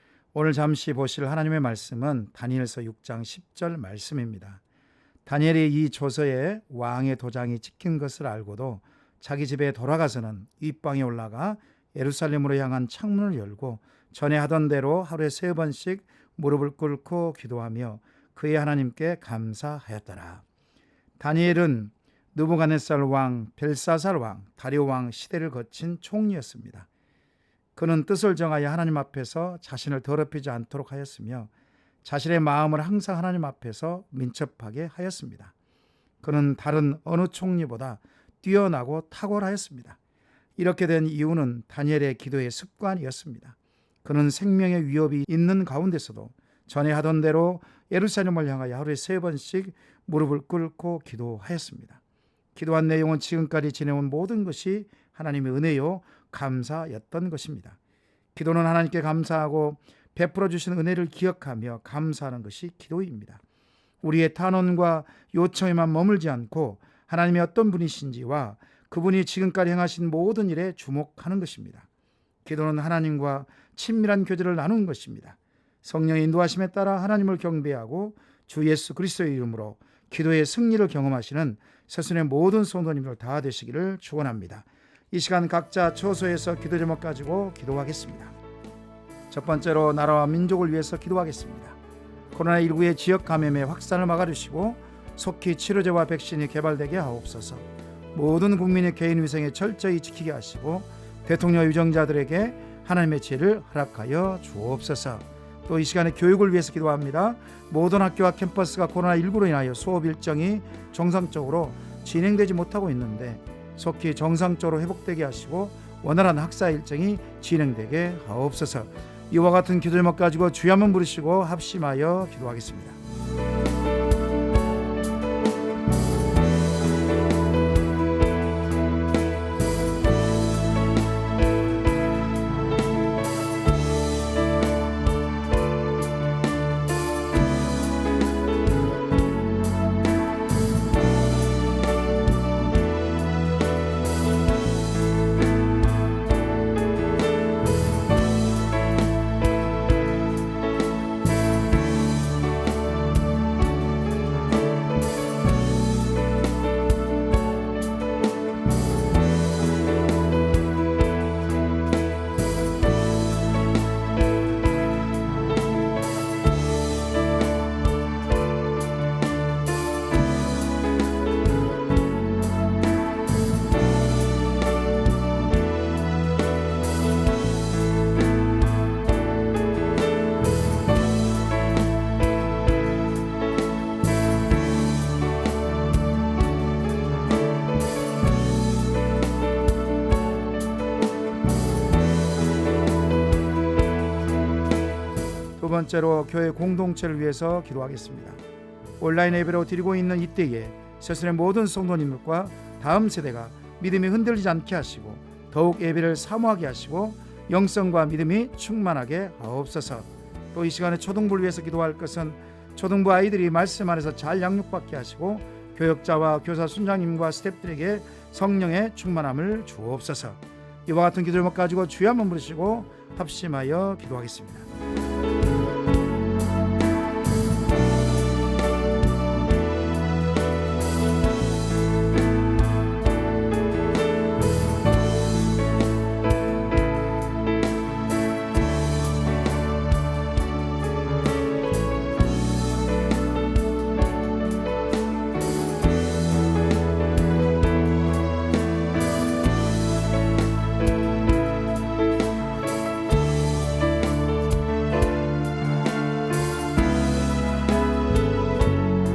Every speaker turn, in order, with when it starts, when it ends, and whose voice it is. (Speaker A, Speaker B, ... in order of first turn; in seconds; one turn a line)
Speaker A: 0.3-4.6
Speaker A: 5.3-20.4
Speaker A: 21.2-26.9
Speaker A: 27.8-31.5
Speaker A: 32.0-35.5
Speaker A: 36.2-40.0
Speaker A: 40.6-52.0
Speaker A: 52.5-57.8
Speaker A: 58.4-63.4
Speaker A: 64.0-71.9
Speaker A: 72.5-88.3
Speaker A: 89.3-91.8
Speaker A: 92.3-123.0
Speaker A: 195.6-198.4
Speaker A: 199.0-224.7